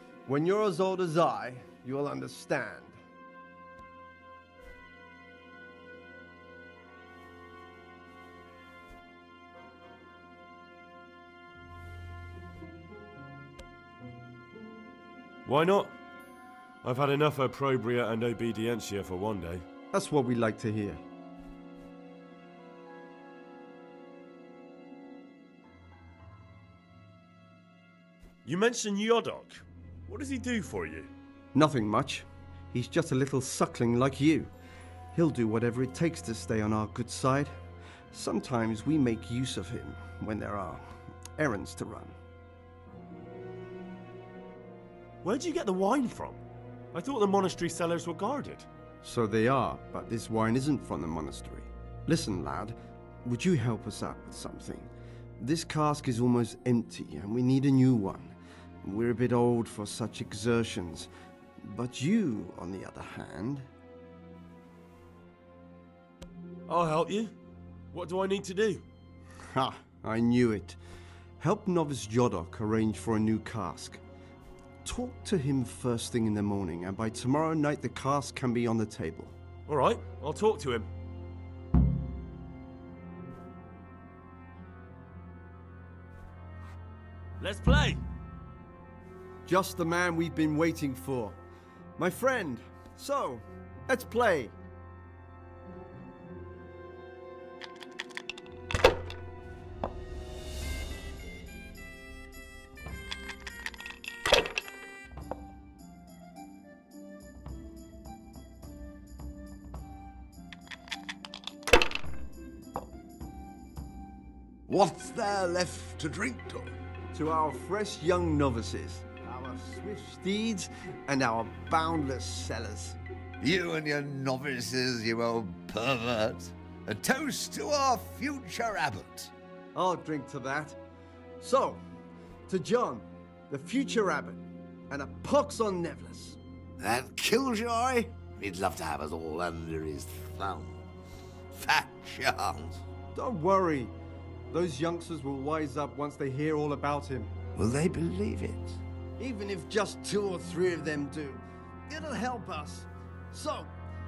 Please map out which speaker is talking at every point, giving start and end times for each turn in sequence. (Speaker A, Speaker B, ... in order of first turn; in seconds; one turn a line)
Speaker A: 0.3-3.0
Speaker B: 15.5-16.0
Speaker B: 16.8-19.6
Speaker A: 19.9-21.0
Speaker B: 28.4-31.1
Speaker A: 31.5-34.5
Speaker A: 35.1-37.6
Speaker A: 38.1-42.2
Speaker B: 45.2-46.4
Speaker B: 46.9-48.7
Speaker A: 49.0-63.7
Speaker B: 66.7-67.3
Speaker B: 67.9-68.8
Speaker A: 69.5-70.8
Speaker A: 71.4-74.0
Speaker A: 74.8-79.3
Speaker B: 79.7-80.9
Speaker B: 87.4-88.0
Speaker A: 89.5-91.4
Speaker A: 92.0-94.6
Speaker C: 114.7-116.8
Speaker A: 117.1-123.0
Speaker C: 123.4-129.3
Speaker A: 129.7-130.8
Speaker A: 131.4-131.8
Speaker A: 132.5-136.4
Speaker C: 136.8-140.8
Speaker C: 141.5-142.8
Speaker A: 143.1-143.9
Speaker A: 144.5-147.3
Speaker C: 147.6-148.8
Speaker A: 149.2-153.8